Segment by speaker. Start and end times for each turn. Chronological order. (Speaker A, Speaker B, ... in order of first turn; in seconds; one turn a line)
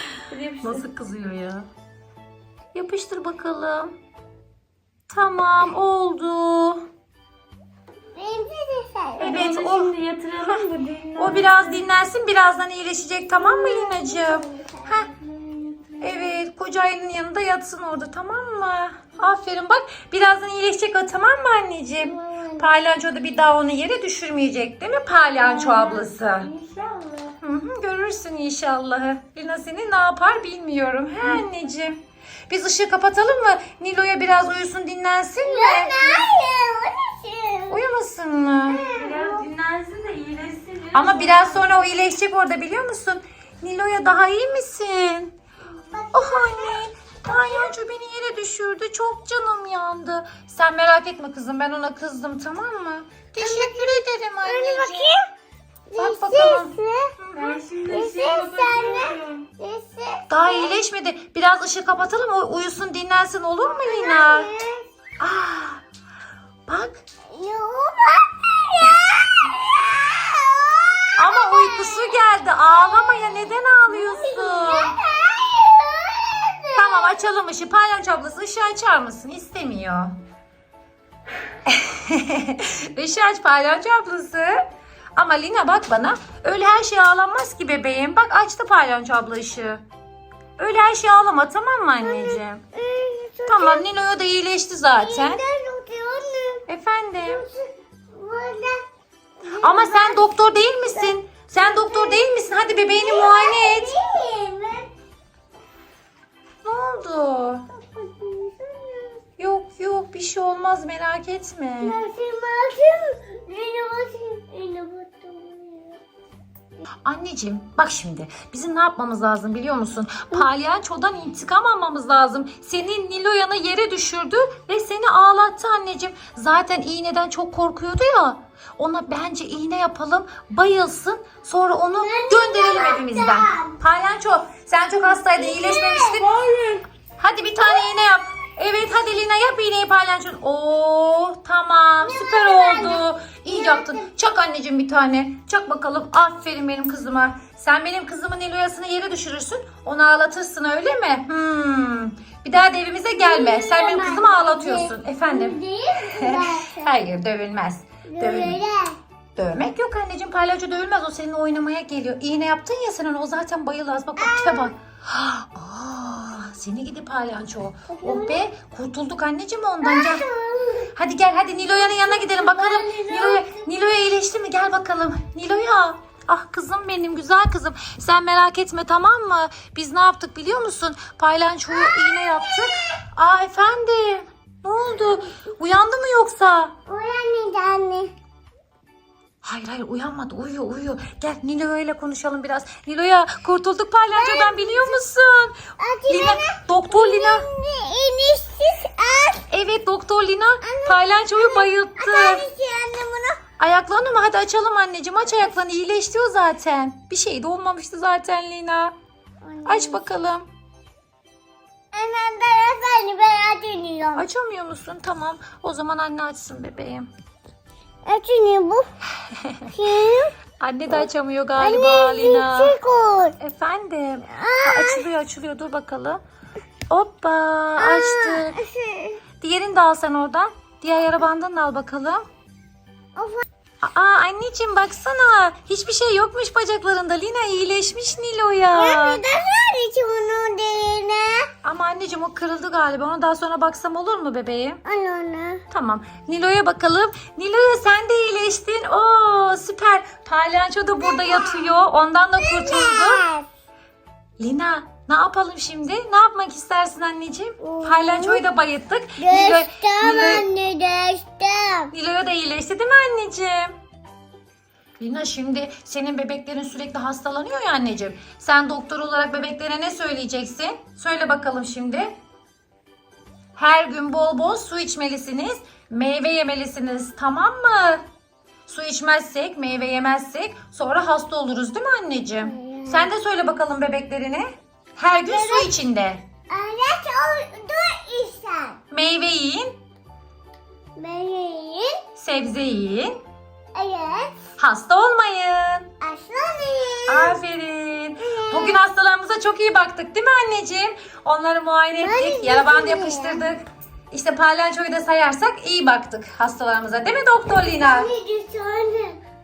Speaker A: 0.3-0.9
Speaker B: 0.6-1.7
Speaker B: 2.7-4.0
Speaker B: 5.1-6.8
Speaker C: 8.1-9.5
Speaker A: 9.2-11.9
Speaker B: 9.2-10.6
Speaker B: 11.2-15.1
Speaker C: 13.3-15.1
Speaker A: 15.1-16.4
Speaker B: 16.0-26.5
Speaker C: 22.0-22.7
Speaker A: 25.4-27.4
Speaker B: 27.4-36.2
Speaker C: 35.4-37.8
Speaker B: 37.7-38.8
Speaker C: 38.6-39.5
Speaker A: 38.9-41.8
Speaker B: 40.9-45.3
Speaker C: 45.7-47.7
Speaker B: 46.1-55.1
Speaker C: 53.4-55.2
Speaker C: 55.9-57.1
Speaker B: 56.0-57.6
Speaker A: 57.3-59.5
Speaker C: 57.9-60.8
Speaker B: 60.3-64.5
Speaker C: 63.8-64.8
Speaker B: 65.2-65.8
Speaker B: 66.7-67.0
Speaker C: 67.3-77.1
Speaker B: 71.2-74.9
Speaker B: 76.7-80.1
Speaker B: 81.7-89.8
Speaker B: 90.6-92.6
Speaker C: 92.0-93.8
Speaker B: 93.5-95.4
Speaker C: 95.0-96.7
Speaker B: 96.7-97.4
Speaker C: 97.2-98.8
Speaker C: 99.4-100.3
Speaker B: 99.6-103.9
Speaker C: 100.9-104.9
Speaker B: 106.6-107.6
Speaker C: 107.7-109.2
Speaker B: 109.4-112.0
Speaker C: 111.8-116.0
Speaker B: 117.0-136.3
Speaker C: 131.9-133.8
Speaker C: 135.3-136.2
Speaker A: 136.2-136.8
Speaker B: 137.2-158.6
Speaker C: 142.0-144.1
Speaker C: 153.2-156.9
Speaker C: 158.1-159.0
Speaker B: 159.3-170.2
Speaker C: 164.2-164.7
Speaker C: 167.9-168.4
Speaker C: 169.8-170.9
Speaker B: 170.9-186.7
Speaker C: 171.6-173.7
Speaker C: 181.7-182.7
Speaker C: 186.9-188.1
Speaker B: 189.4-197.4
Speaker C: 194.1-195.0
Speaker C: 195.8-199.4
Speaker B: 199.5-202.4
Speaker C: 200.6-203.4
Speaker B: 203.6-208.9
Speaker C: 205.3-205.5
Speaker C: 209.4-210.1
Speaker B: 209.6-210.5
Speaker C: 211.9-214.2
Speaker B: 214.2-217.1
Speaker C: 218.1-218.9
Speaker B: 219.4-219.7
Speaker C: 219.7-220.3
Speaker B: 220.6-222.7
Speaker C: 221.6-223.4
Speaker B: 223.4-226.2
Speaker C: 224.3-225.1
Speaker B: 226.9-228.6
Speaker C: 227.8-229.2
Speaker B: 229.4-232.2
Speaker C: 233.2-233.4
Speaker B: 233.8-239.2
Speaker C: 238.7-241.5
Speaker B: 241.6-244.8
Speaker C: 244.8-245.6
Speaker B: 245.7-253.2
Speaker C: 251.0-251.8
Speaker C: 252.4-253.4
Speaker B: 254.4-260.4
Speaker C: 257.6-258.4
Speaker C: 259.2-261.9
Speaker B: 261.9-263.7
Speaker B: 265.0-272.1
Speaker B: 273.6-278.0
Speaker B: 278.7-286.2
Speaker C: 282.4-283.1
Speaker C: 285.2-285.7
Speaker C: 286.5-288.8
Speaker B: 288.9-289.8
Speaker C: 290.9-292.0
Speaker B: 292.1-293.2
Speaker C: 293.7-294.4
Speaker B: 294.6-295.9
Speaker C: 296.0-297.4
Speaker B: 297.1-308.1
Speaker C: 298.2-298.8
Speaker C: 301.9-303.4
Speaker C: 307.8-309.2